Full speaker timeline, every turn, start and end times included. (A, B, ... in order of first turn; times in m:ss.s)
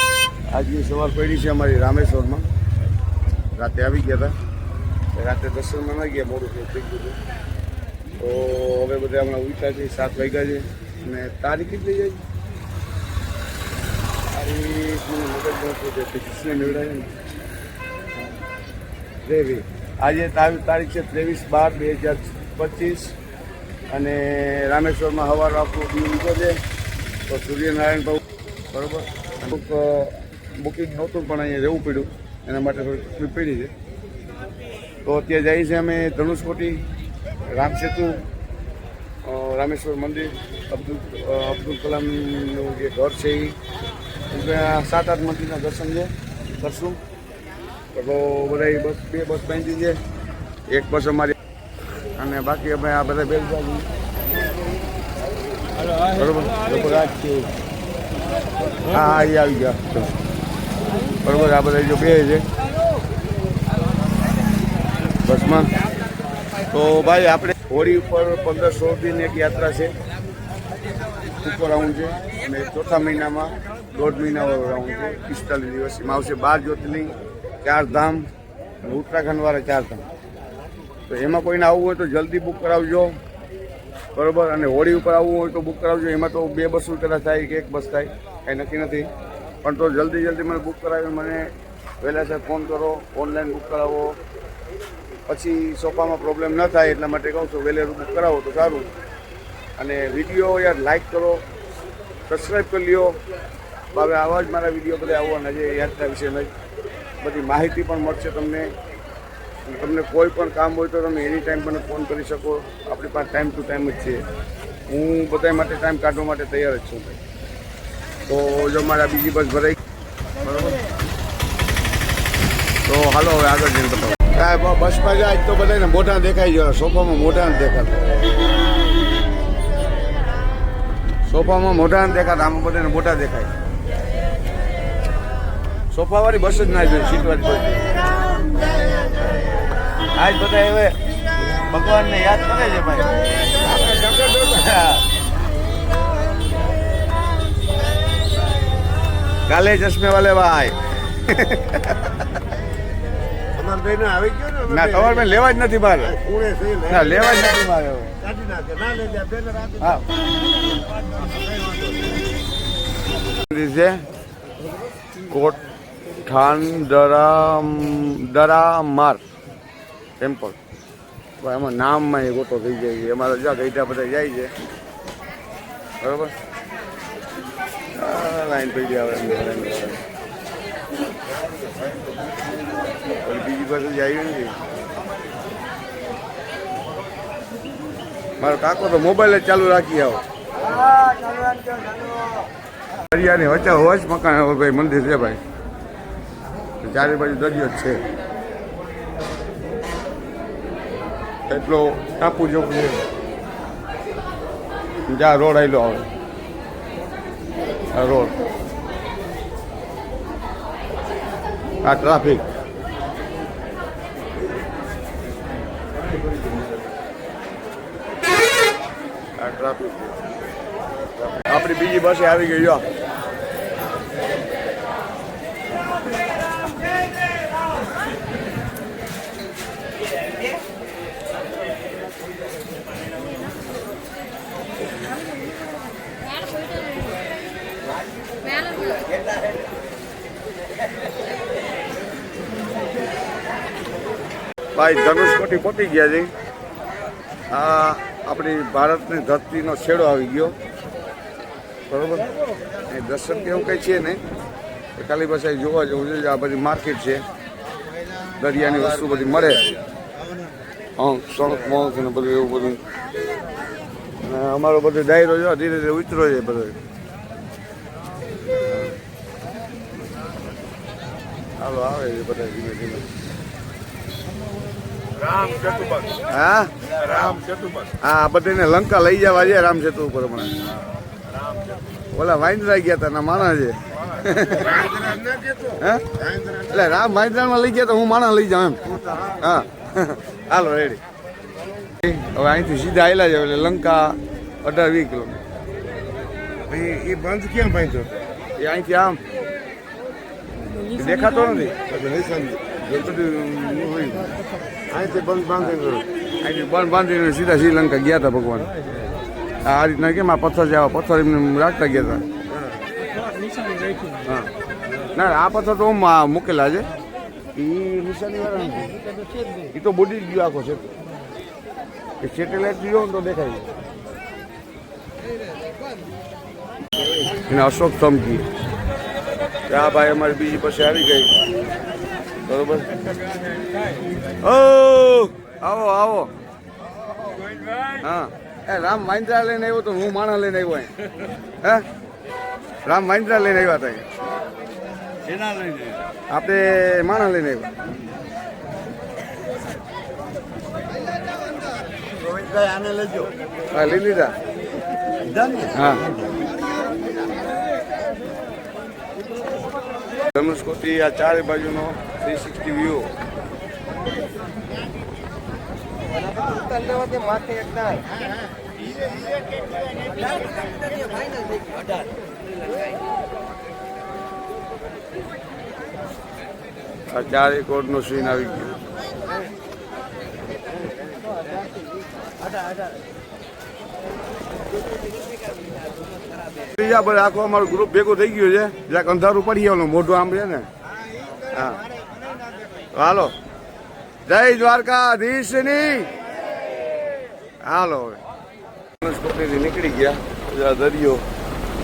0:00.5-0:02.5 A
0:03.6-0:04.3 A
0:05.2-0:07.2 A
0:08.2-0:12.2 A
0:14.3-0:17.1 A
0:19.2-0:23.2 A
0:23.9-0:26.6 A
0:27.3-0:33.7 A
0:35.0-0:36.8 A
0:37.5-0:38.2 A
0:39.2-0:43.6 A
0:44.3-0:47.0 A
0:47.9-0:50.0 A
0:50.7-0:51.4 A
0:52.2-0:53.9 A
0:56.0-0:57.5 A
0:58.9-1:00.1 A
1:01.2-1:02.4 A
1:05.2-1:05.7 A
1:06.7-1:10.0 A
1:11.4-1:18.3 A
1:18.8-1:20.0 A
1:21.1-1:23.2 A
1:24.2-1:29.1 A
1:29.6-1:31.5 A
1:32.0-1:34.2 A
1:35.3-1:38.9 A
1:39.8-1:41.4 A
1:42.3-1:43.1 A
1:43.9-1:46.5 A
1:47.2-1:48.7 A
1:49.7-1:54.2 A
1:54.9-1:57.2 A
1:58.2-1:59.8 A
2:00.4-2:00.8 A
2:02.9-2:08.1 A
2:11.3-2:13.5 A
2:15.9-2:18.0 A
2:20.2-2:21.0 A
2:21.7-2:25.0 A
2:24.2-2:24.4 B
2:29.5-2:32.2 A
2:33.5-2:35.2 B
2:34.7-2:36.2 A
2:36.1-2:37.4 B
2:36.9-2:38.2 A
2:38.2-2:39.9 B
2:41.2-2:42.0 B
2:43.4-2:44.0 A
2:45.3-2:45.6 A
2:46.2-2:49.2 A
2:50.2-2:50.6 A
2:51.4-2:54.5 A
2:56.0-2:56.3 A
2:58.0-3:00.0 A
3:01.6-3:02.0 B
3:03.2-3:04.5 A
3:08.4-3:10.2 A
3:10.7-3:12.2 B
3:13.1-3:15.4 A
3:16.8-3:18.0 A
3:21.5-3:23.0 A
3:25.1-3:26.1 A
3:27.9-3:28.4 A
3:31.8-3:32.4 A
3:39.4-3:40.2 A
3:41.2-3:42.9 A
4:04.8-4:06.3 A
4:07.5-4:10.6 A
4:11.9-4:12.3 A
4:12.9-4:14.2 A
4:15.0-4:17.2 A
4:18.4-4:19.7 A
4:21.0-4:22.8 A
4:24.2-4:26.8 A
4:28.6-4:28.9 A
4:31.6-4:33.1 A
4:35.2-4:36.2 B
4:36.2-4:37.4 A
4:37.0-4:37.9 B
4:38.0-4:40.5 A
4:42.1-4:44.9 A
4:44.7-4:46.7 B
4:45.8-4:46.1 A
4:46.7-4:48.8 A
4:48.9-4:49.4 B
4:49.4-4:51.0 A
4:52.0-4:55.4 A
4:56.7-4:58.1 B
4:58.6-4:59.2 A
5:00.9-5:01.8 A
5:01.9-5:02.7 B
5:02.9-5:04.3 A
5:04.9-5:06.0 B
5:06.4-5:08.7 A
5:09.6-5:12.2 A
5:14.2-5:14.5 A
5:15.1-5:16.9 A
5:17.6-5:18.9 A
5:19.7-5:20.9 A
5:22.2-5:23.7 A
5:27.5-5:28.4 A
5:29.7-5:31.3 A
5:32.5-5:32.9 A
5:34.4-5:36.3 A
5:38.0-5:40.9 A
5:42.9-5:44.1 A
5:45.2-5:46.0 B
5:46.3-5:47.7 A
5:52.0-5:53.3 B
5:53.7-5:54.4 A
5:55.2-5:56.3 B
5:55.7-5:56.1 A
6:00.3-6:03.1 A
6:06.8-6:08.0 B
6:17.1-6:18.8 A
6:26.8-6:30.7 A
6:31.5-6:31.8 A
6:32.9-6:33.3 A
6:34.3-6:36.1 A
6:37.6-6:38.2 A
6:39.0-6:41.2 A